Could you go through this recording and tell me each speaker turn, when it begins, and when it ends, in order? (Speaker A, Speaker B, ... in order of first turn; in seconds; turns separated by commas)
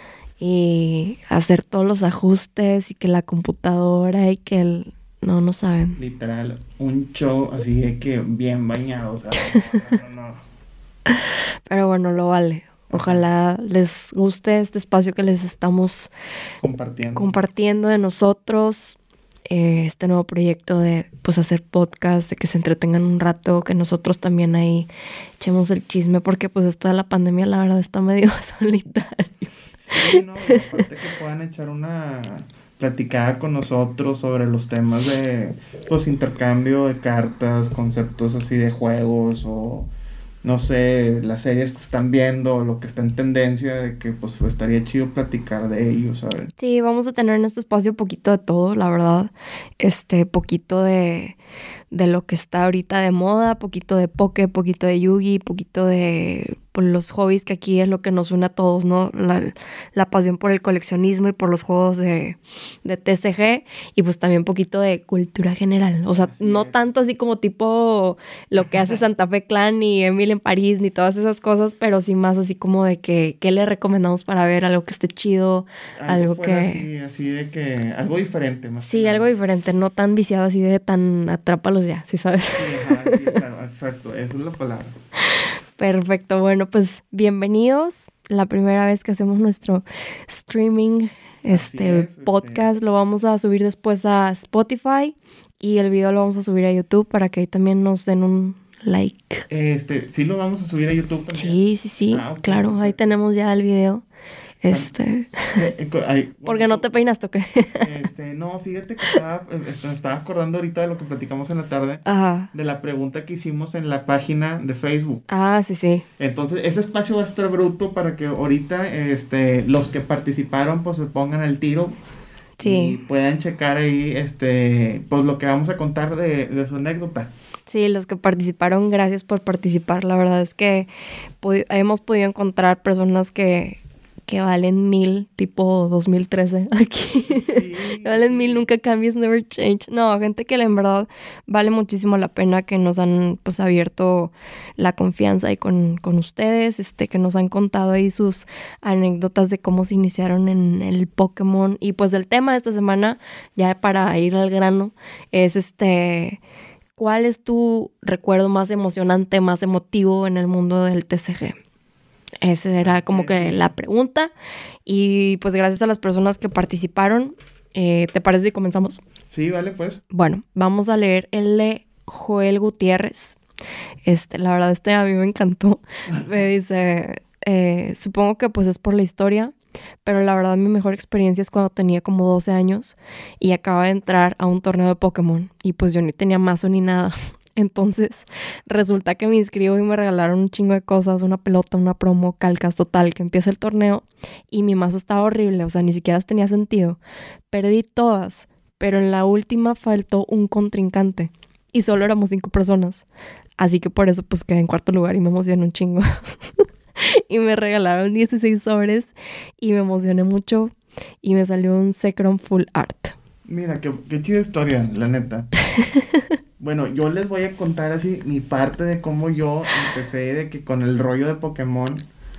Speaker A: 0.4-6.0, Speaker B: 6.0-10.4, Speaker A: 11.1-16.1, Speaker B: 12.9-13.2, Speaker B: 16.6-17.4, Speaker A: 17.1-19.0, Speaker A: 19.5-24.9, Speaker A: 25.4-30.6, Speaker B: 29.8-39.9, Speaker B: 40.4-46.5, Speaker A: 46.6-51.4, Speaker A: 51.9-76.8, Speaker B: 66.1-67.0, Speaker B: 76.0-79.4, Speaker A: 78.8-83.3, Speaker B: 82.5-84.9, Speaker A: 85.8-99.4, Speaker B: 91.5-92.7, Speaker B: 99.5-101.6, Speaker A: 101.3-104.0, Speaker B: 102.1-103.2, Speaker A: 104.6-105.5, Speaker B: 105.5-107.0, Speaker A: 106.5-107.9, Speaker B: 107.8-115.2, Speaker A: 112.0-112.5, Speaker A: 115.3-116.0, Speaker B: 116.2-122.0, Speaker A: 122.6-122.9, Speaker B: 122.6-127.3, Speaker A: 127.7-130.9, Speaker A: 131.4-156.4, Speaker B: 137.3-138.7, Speaker A: 157.0-161.6, Speaker A: 162.4-164.3, Speaker B: 162.8-163.7, Speaker A: 164.8-169.0, Speaker B: 169.3-170.0, Speaker A: 170.1-173.4, Speaker A: 174.1-179.5, Speaker A: 180.0-197.0, Speaker A: 197.5-203.0, Speaker A: 203.6-213.1, Speaker B: 213.5-215.5, Speaker A: 215.8-216.2, Speaker B: 216.6-222.0